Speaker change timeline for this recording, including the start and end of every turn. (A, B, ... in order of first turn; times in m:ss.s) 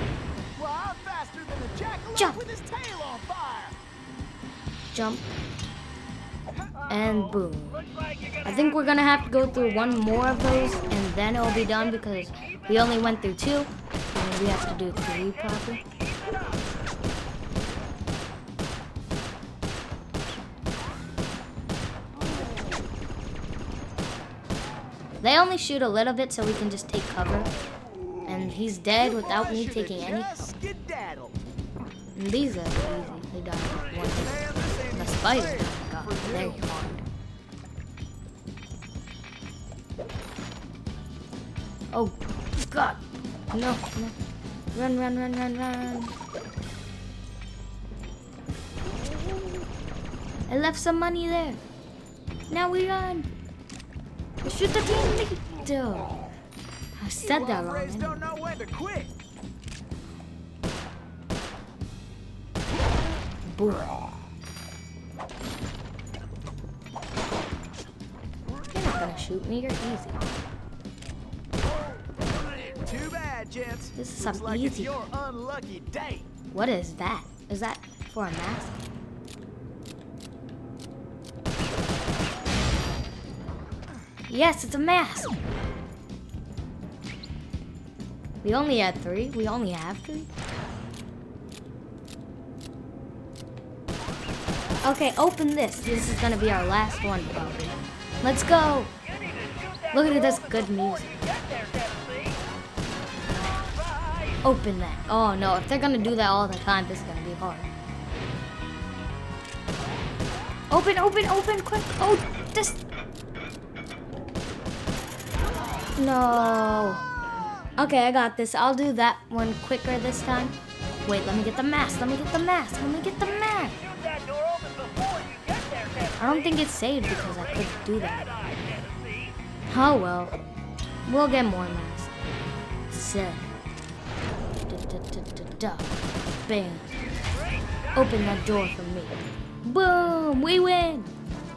0:00.6-0:03.8 A
0:04.9-0:05.2 B
0:06.9-0:07.8 B
0:07.0-0:10.3 C
0:08.4-0:15.8 B
0:12.4-0:13.0 C
0:15.7-0:16.6 C
0:25.2-0:27.5 B
0:28.2-0:30.5 B
0:29.0-0:31.4 A
0:32.2-0:37.0 B
0:34.0-0:36.7 A
0:41.9-0:44.2 B
0:44.7-0:46.1 B
0:50.5-0:51.6 B
0:52.5-0:53.3 B
0:54.4-0:56.2 B
0:57.0-0:58.2 B
0:57.2-0:59.1 A
1:03.4-1:04.0 B
1:08.6-1:10.2 B
1:12.8-1:16.3 A
1:14.0-1:14.9 B
1:16.5-1:18.8 B
1:24.3-1:25.3 B
1:28.4-1:30.3 B
1:34.8-1:38.9 B
1:39.1-1:42.4 C
1:39.9-1:41.2 B
1:43.7-1:44.4 C
1:44.4-1:47.7 B
1:50.7-1:52.8 B
1:56.0-1:57.0 B
1:57.8-2:03.8 B
2:03.7-2:06.5 C
2:06.2-2:08.3 B
2:07.0-2:09.3 C
2:09.7-2:10.4 B
2:11.0-2:12.1 B
2:12.9-2:13.4 B
2:14.6-2:16.9 B
2:17.3-2:18.0 C
2:17.9-2:21.1 B